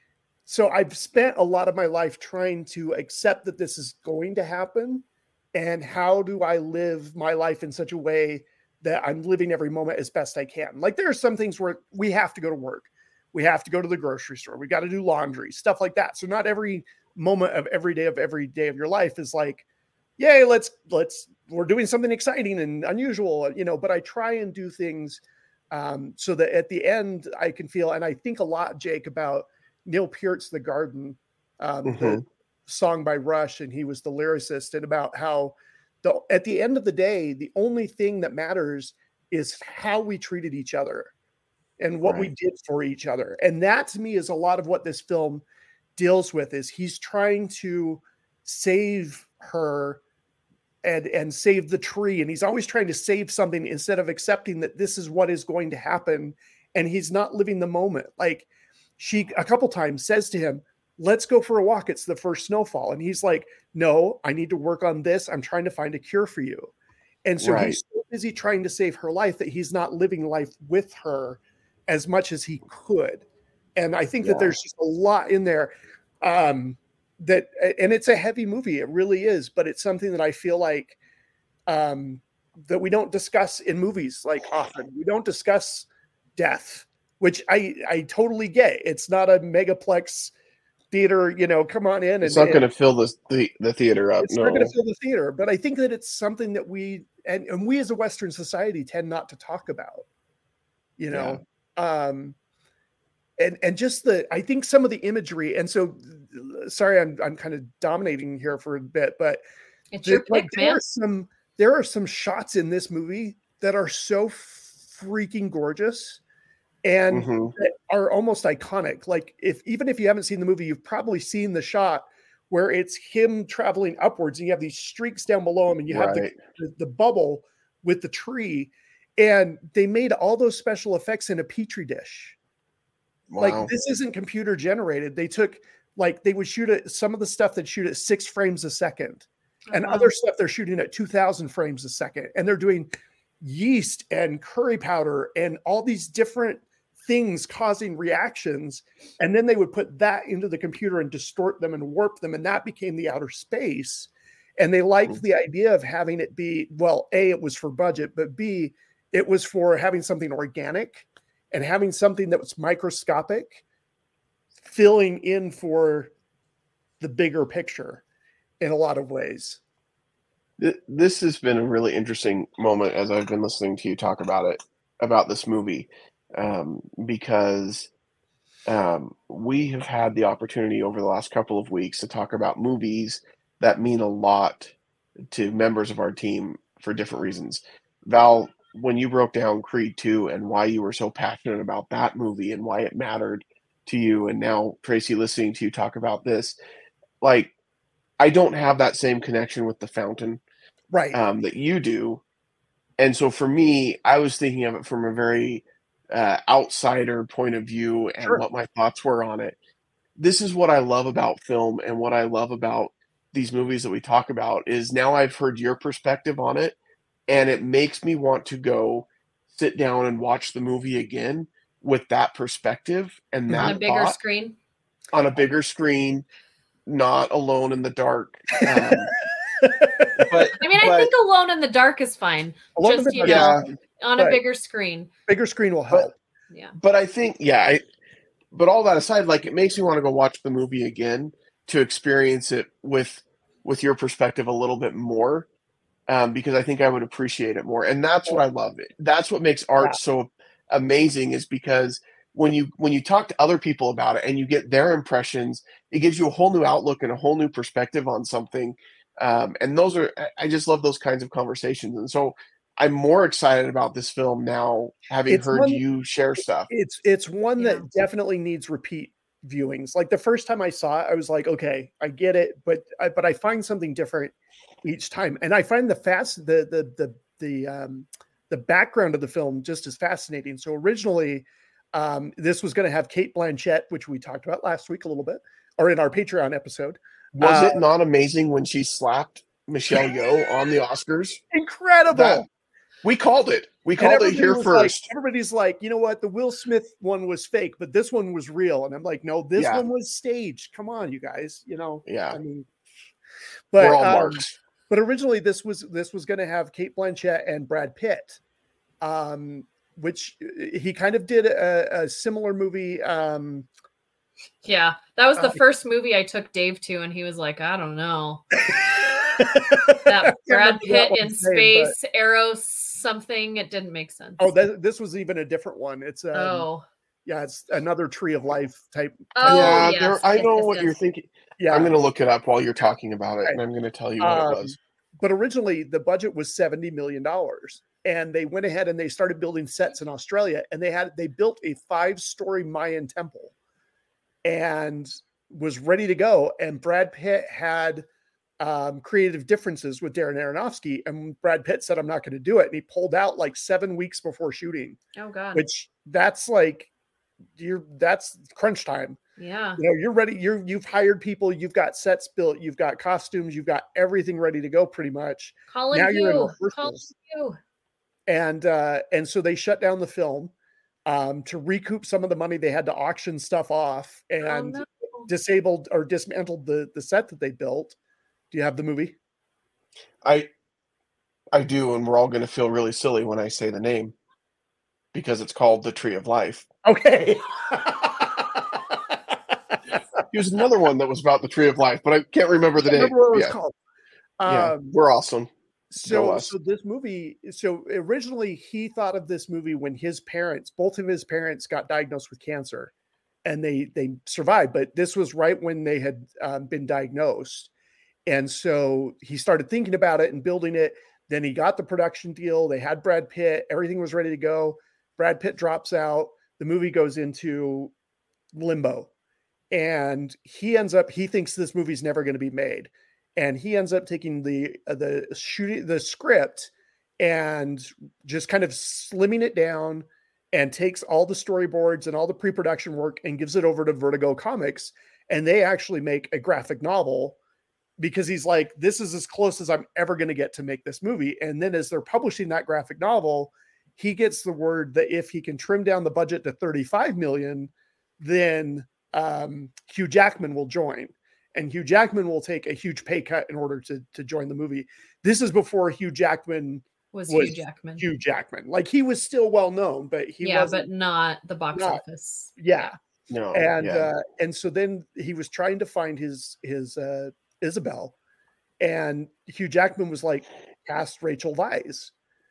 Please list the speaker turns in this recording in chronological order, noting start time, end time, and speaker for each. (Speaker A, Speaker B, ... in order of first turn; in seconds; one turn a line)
Speaker A: 0.5-19.6
Speaker A: 20.2-41.1
Speaker B: 31.9-32.2
Speaker A: 41.8-45.4
Speaker B: 42.0-42.3
Speaker A: 46.0-50.0
Speaker A: 50.8-58.5
Speaker A: 59.0-66.7
Speaker A: 67.2-73.2
Speaker B: 67.4-67.8
Speaker A: 73.8-75.7
Speaker B: 74.2-74.5
Speaker A: 76.2-81.0
Speaker A: 81.7-90.3
Speaker A: 90.9-92.6
Speaker B: 92.2-94.7
Speaker A: 94.2-100.0
Speaker A: 101.0-102.3
Speaker B: 101.1-101.4
Speaker A: 103.4-109.4
Speaker C: 109.9-110.8
Speaker A: 110.0-116.2
Speaker A: 116.8-132.3
Speaker B: 117.1-117.5
Speaker B: 125.9-126.4
Speaker B: 133.3-133.7
Speaker A: 133.4-142.9
Speaker C: 139.7-140.1
Speaker A: 143.4-163.6
Speaker A: 164.6-166.1
Speaker A: 167.0-168.0
Speaker A: 168.6-169.6
Speaker B: 170.6-177.9
Speaker B: 178.7-184.7
Speaker B: 185.3-196.6
Speaker B: 197.2-197.5
Speaker B: 198.2-200.4
Speaker A: 200.9-201.2
Speaker B: 201.1-202.2
Speaker B: 203.0-209.6
Speaker B: 210.2-216.8
Speaker B: 217.3-224.2
Speaker A: 223.5-223.8
Speaker C: 223.6-224.6
Speaker B: 225.1-226.2
Speaker B: 226.8-229.1
Speaker A: 228.6-229.1
Speaker A: 229.6-230.5
Speaker B: 230.2-231.1
Speaker C: 230.6-235.1
Speaker A: 232.7-234.4
Speaker B: 233.2-233.6
Speaker A: 235.3-236.1
Speaker C: 236.5-236.8
Speaker B: 236.8-237.8
Speaker B: 238.5-245.5
Speaker B: 246.1-266.7
Speaker A: 265.3-265.8
Speaker A: 266.7-287.8
Speaker C: 267.6-267.9
Speaker B: 287.3-291.4
Speaker A: 291.5-292.4
Speaker B: 292.1-292.4
Speaker B: 293.0-295.1
Speaker A: 294.0-302.7
Speaker B: 299.6-299.8
Speaker B: 302.1-302.4
Speaker A: 303.7-308.4
Speaker B: 303.8-304.5
Speaker A: 309.0-313.7
Speaker C: 314.6-318.5
Speaker A: 318.7-321.9
Speaker C: 320.0-324.6
Speaker A: 324.4-326.7
Speaker C: 326.3-326.8
Speaker A: 327.2-330.0
Speaker C: 329.3-331.0
Speaker B: 329.4-334.7
Speaker A: 331.6-331.9
Speaker A: 334.2-343.5
Speaker A: 344.4-348.0
Speaker A: 348.6-355.0
Speaker C: 355.1-355.6
Speaker A: 355.5-356.9
Speaker A: 357.6-359.2
Speaker C: 359.4-359.8
Speaker A: 359.8-367.1
Speaker C: 365.7-367.6
Speaker A: 368.3-370.5
Speaker A: 371.1-377.9
Speaker C: 374.4-375.3
Speaker A: 378.5-379.1
Speaker B: 380.2-380.5
Speaker B: 381.5-384.1
Speaker B: 385.1-386.6
Speaker A: 386.8-389.8
Speaker B: 390.3-393.5
Speaker A: 392.8-393.7
Speaker A: 394.4-394.9
Speaker B: 394.4-395.5
Speaker A: 395.9-402.9
Speaker B: 396.0-396.5
Speaker A: 403.4-407.7
Speaker A: 408.2-417.9
Speaker A: 418.5-419.1
Speaker A: 419.7-437.4
Speaker A: 438.0-460.9
Speaker C: 457.1-458.1
Speaker C: 460.4-462.5
Speaker A: 461.7-462.0
Speaker A: 462.6-462.9
Speaker B: 463.3-464.1
Speaker A: 463.5-468.1
Speaker A: 468.8-472.1